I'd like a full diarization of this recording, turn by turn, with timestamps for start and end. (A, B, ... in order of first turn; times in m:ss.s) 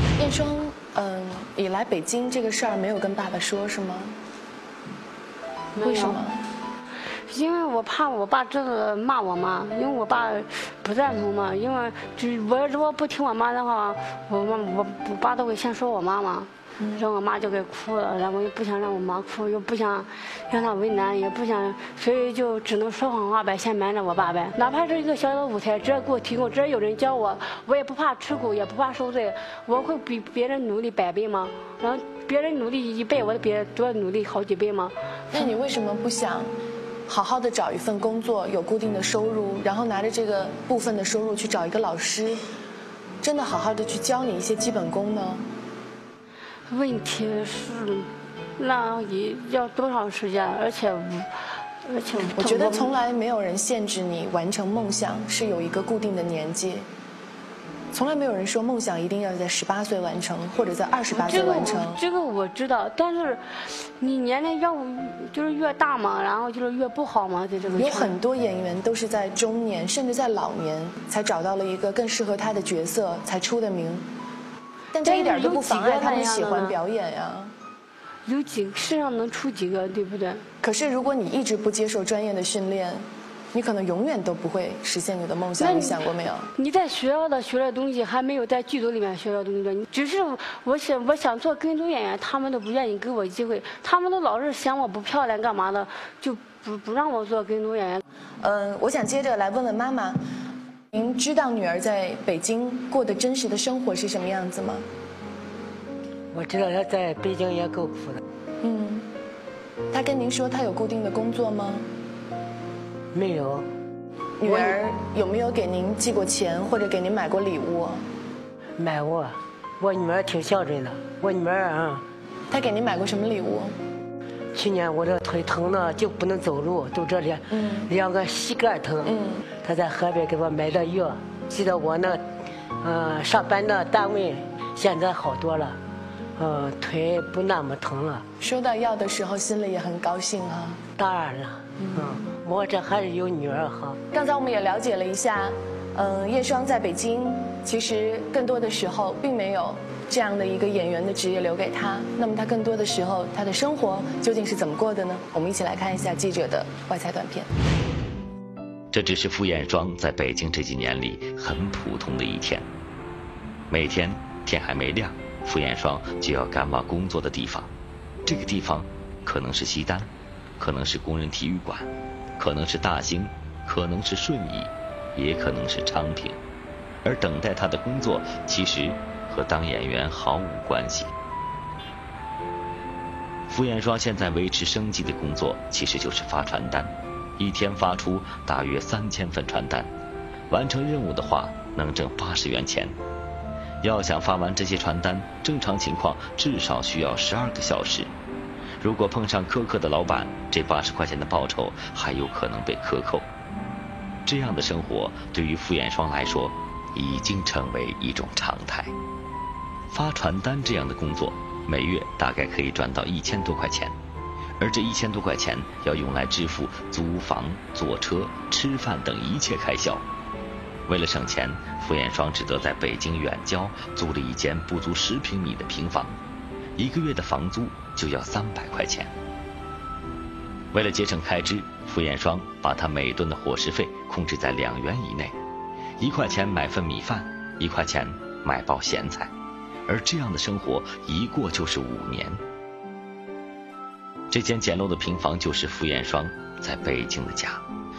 0:00.2-0:04.2 A
0:05.7-0:06.2 B
0:05.8-0:06.4 A
0:07.3-0:35.5 B
0:16.8-0:17.0 A
0:35.3-0:36.5 A
0:37.1-0:42.4 A
0:43.2-0:45.4 A
0:46.7-0:52.9 B
0:52.4-0:56.9 A
0:57.9-1:02.0 A
1:01.1-1:08.2 B
1:07.7-1:14.0 A
1:14.9-1:17.5 A
1:15.0-1:16.8 B
1:18.2-1:20.4 B
1:20.6-1:26.5 A
1:25.6-1:26.0 B
1:26.5-1:38.0 B
1:38.4-1:40.2 A
1:40.9-1:44.8 A
1:46.3-1:48.2 C
1:48.6-1:49.1 A
1:49.9-1:51.9 A
1:53.1-1:53.6 C
1:54.4-1:58.0 A
1:54.4-1:54.8 C
1:58.8-2:02.0 C
2:02.5-2:03.7 A
2:04.5-2:12.2 C
2:07.5-2:07.9 A
2:09.0-2:09.4 A
2:12.8-2:15.8 C
2:16.4-2:18.2 C
2:18.4-2:20.8 A
2:21.0-2:24.0 C
2:21.8-2:22.1 A
2:24.1-2:37.5 A
2:38.9-2:42.6 D
2:43.7-2:47.7 D
2:48.2-2:56.4 D
2:57.0-3:01.1 D
3:03.5-3:09.9 D
3:10.5-3:12.9 D
3:13.8-3:18.1 D
3:18.8-3:23.3 D
3:24.2-3:28.9 D
3:29.9-3:33.9 D
3:34.6-3:40.0 D
3:40.9-3:46.2 D
3:46.8-3:49.1 D
3:50.7-3:55.3 D
3:56.0-3:59.3 D
3:59.9-4:02.4 D
4:04.3-4:07.6 D